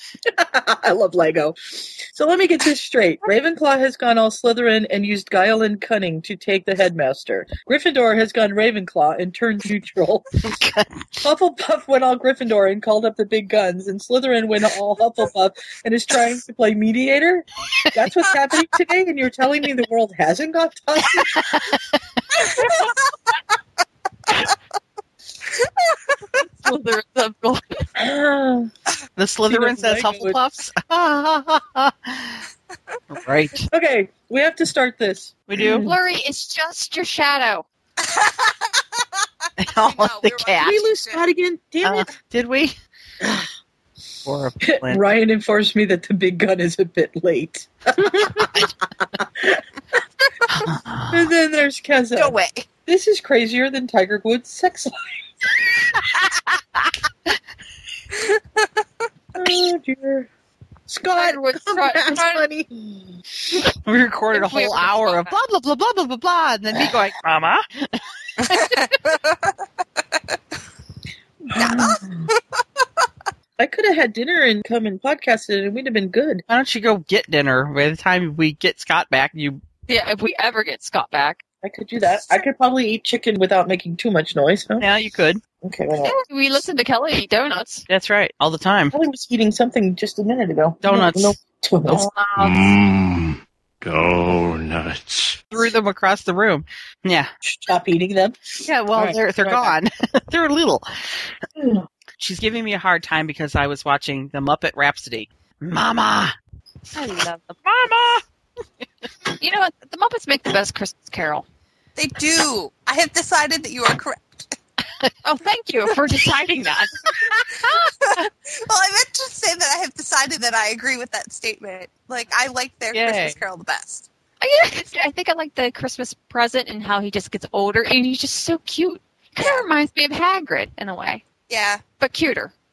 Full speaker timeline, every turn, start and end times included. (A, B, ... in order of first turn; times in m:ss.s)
0:00.3-0:10.5 A
0:10.4-0:11.1 B
0:11.2-0:21.5 A
0:21.3-0:22.0 B
0:26.6-0:27.9 C
0:28.0-0:28.7 A
0:29.2-0:32.4 B
0:29.5-0:30.4 A
0:33.1-0:33.7 B
0:33.7-0:36.0 A
0:35.5-0:35.9 B
0:35.7-0:37.6 C
0:38.0-0:38.7 D
0:39.6-0:40.8 B
0:39.8-0:41.2 D
0:40.6-0:42.1 A
0:41.8-0:42.8 B
0:43.2-0:43.5 A
0:44.2-0:45.0 B
0:44.7-0:49.6 A
0:50.5-0:51.2 B
0:51.1-0:55.2 A
0:52.2-0:52.7 D
0:59.4-1:00.3 A
1:00.9-1:03.2 A
1:01.2-1:02.4 C
1:03.8-1:08.8 B
1:04.3-1:05.4 C
1:08.5-1:09.5 D
1:11.5-1:12.3 A
1:11.6-1:12.4 D
1:13.6-1:16.4 A
1:16.5-1:19.6 B
1:19.9-1:21.4 C
1:21.6-1:24.9 A
1:24.8-1:25.4 B
1:25.6-1:26.2 A
1:26.0-1:27.8 C
1:27.9-1:29.0 B
1:28.9-1:32.1 A
1:30.8-1:31.4 B
1:31.9-1:32.7 C
1:32.4-1:35.4 E
1:35.5-1:37.3 B
1:37.4-1:38.4 A
1:38.7-1:40.9 B
1:38.9-1:39.8 A
1:41.6-1:41.8 A
1:42.2-1:46.4 B
1:46.9-1:47.6 C
1:47.6-1:48.2 B
1:49.4-1:51.4 C
1:52.0-1:54.6 D
1:55.2-1:57.1 C
1:57.9-2:04.1 D
2:02.9-2:03.4 B
2:04.4-2:11.2 C
2:09.4-2:09.7 D
2:11.5-2:11.8 D
2:12.0-2:12.5 C